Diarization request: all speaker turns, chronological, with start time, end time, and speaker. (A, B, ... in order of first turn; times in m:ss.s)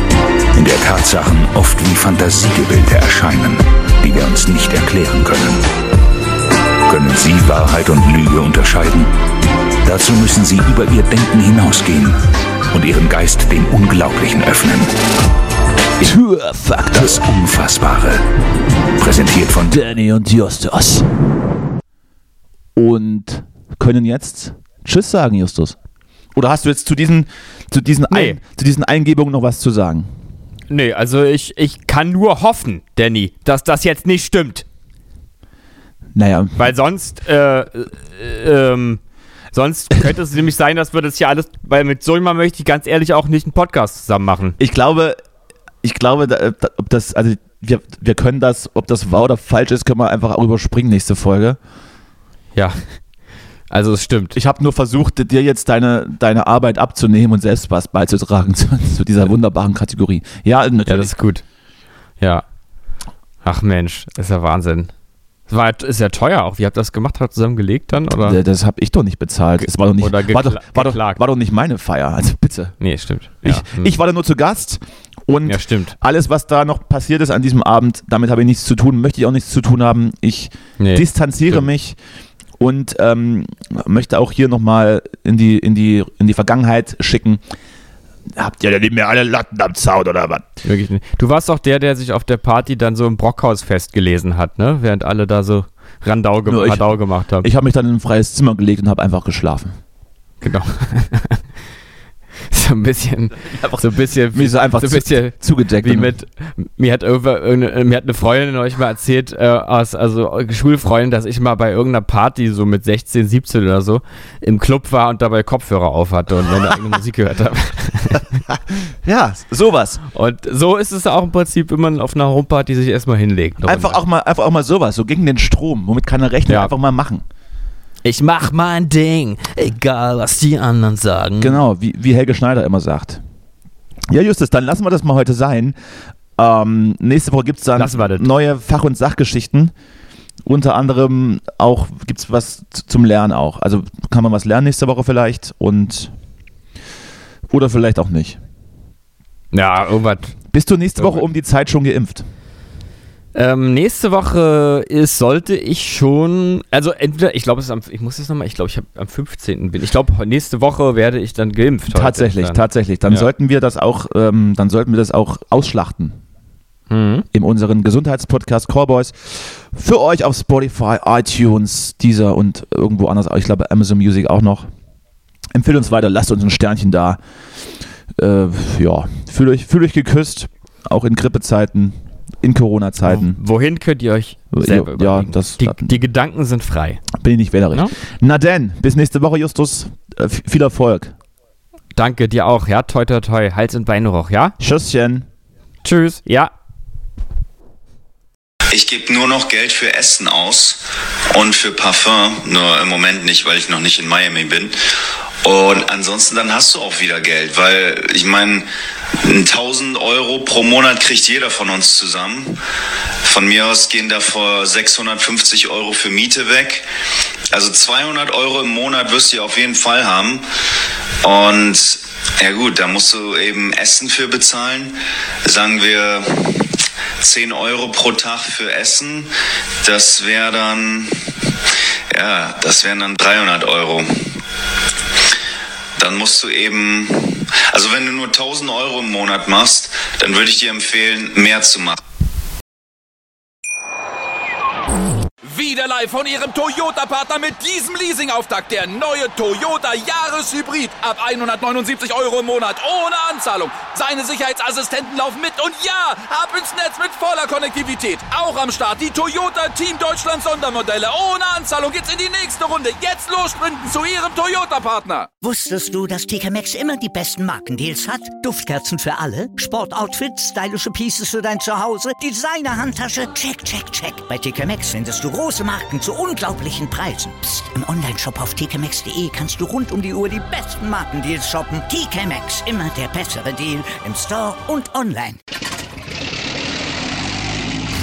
0:00.5-0:05.6 A
0:06.9-0:09.1 A
0:09.8-0:12.2 A
0:12.7-0:15.0 A
0:16.0-0:18.2 A
0:16.0-0:17.0 B
0:19.0-0:20.0 A
0:19.7-0:21.1 B
0:22.8-0:25.8 B
0:26.4-0:30.1 B
0:28.1-0:28.4 C
0:30.7-0:34.7 C
0:36.1-0:36.6 B
0:36.6-0:39.0 C
0:39.5-0:44.6 C
0:44.6-0:45.2 B
0:45.8-0:51.6 B
0:52.6-0:52.8 C
0:53.7-0:54.4 C
0:54.4-1:01.1 B
1:00.9-1:01.4 C
1:03.4-1:04.9 C
1:05.5-1:08.4 C
1:08.2-1:12.8 B
1:09.6-1:11.2 C
1:12.8-1:13.9 C
1:13.4-1:22.0 B
1:15.4-1:16.0 C
1:20.8-1:21.6 C
1:22.6-1:27.4 B
1:28.3-1:30.5 B
1:30.6-1:37.5 C
1:36.5-1:39.8 B
1:40.4-1:41.4 C
1:42.5-1:58.4 C
1:43.4-1:46.1 B
1:58.5-2:00.0 B
2:00.1-2:04.0 C
2:03.6-2:07.2 B
2:06.5-2:06.7 C
2:08.0-2:11.6 C
2:11.4-2:13.2 B
2:14.1-2:15.8 B
2:16.4-2:19.7 B
2:17.8-2:18.3 C
2:20.4-2:26.1 B
2:27.5-2:28.4 B
2:29.5-2:30.4 C
2:30.5-2:32.3 B
2:31.0-2:31.3 C
2:33.3-2:43.3 C
2:41.9-2:46.2 B
2:46.9-2:47.3 C
2:47.3-2:54.7 B
2:55.5-2:57.2 B
2:58.2-3:03.4 B
3:03.0-3:07.0 C
3:04.5-3:05.9 B
3:07.1-3:11.1 B
3:12.0-3:14.6 C
3:14.6-3:15.3 B
3:15.8-3:16.5 C
3:18.7-3:24.8 D
3:25.4-3:28.7 D
3:29.2-3:32.6 D
3:33.2-3:36.9 D
3:37.5-3:40.4 D
3:41.2-3:49.3 D
3:49.8-3:51.2 D
3:52.1-3:54.3 D
3:56.0-4:02.0 D
4:05.4-4:25.3 E
4:25.4-4:45.4 F